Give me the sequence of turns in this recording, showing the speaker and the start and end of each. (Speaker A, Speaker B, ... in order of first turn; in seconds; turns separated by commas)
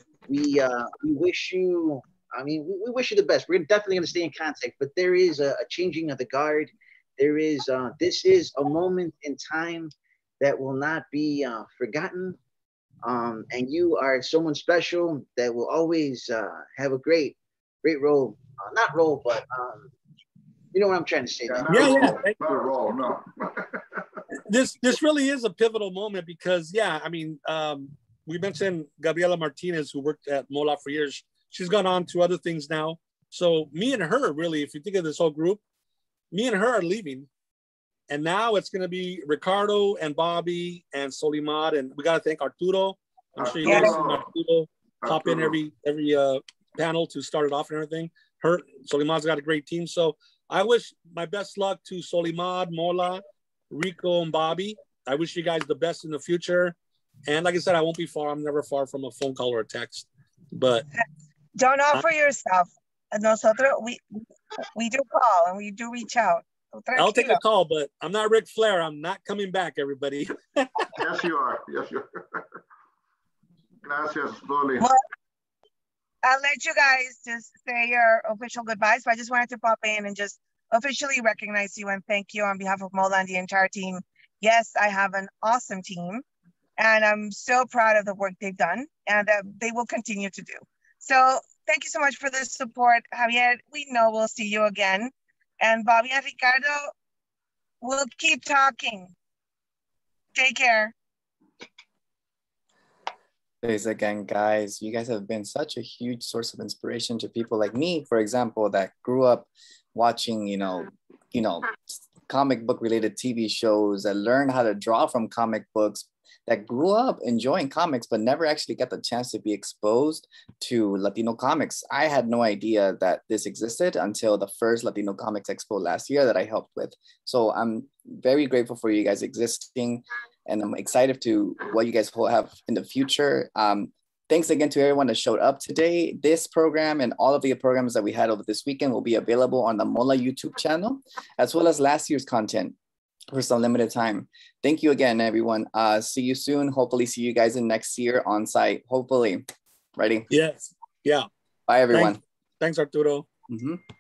Speaker A: 0.3-12.4, Speaker A: 13.0-19.9, Speaker A: 20.7-22.1, Speaker B: 21.5-24.2, Speaker C: 21.7-22.4, Speaker C: 24.5-35.6, Speaker C: 36.3-37.3, Speaker C: 38.1-56.8, Speaker B: 43.4-44.3, Speaker D: 43.6-43.9, Speaker B: 45.0-45.6, Speaker C: 57.3-60.9, Speaker D: 61.6-64.2, Speaker D: 64.7-67.4, Speaker C: 67.0-70.9, Speaker B: 71.0-72.5, Speaker B: 73.8-74.9, Speaker D: 76.2-86.2, Speaker D: 86.8-96.9, Speaker D: 97.8-99.1, Speaker D: 100.3-100.9, Speaker E: 103.6-142.8, Speaker E: 143.3-150.3, Speaker C: 150.3-151.3, Speaker E: 151.7-152.2, Speaker C: 151.9-153.3, Speaker E: 153.5-153.8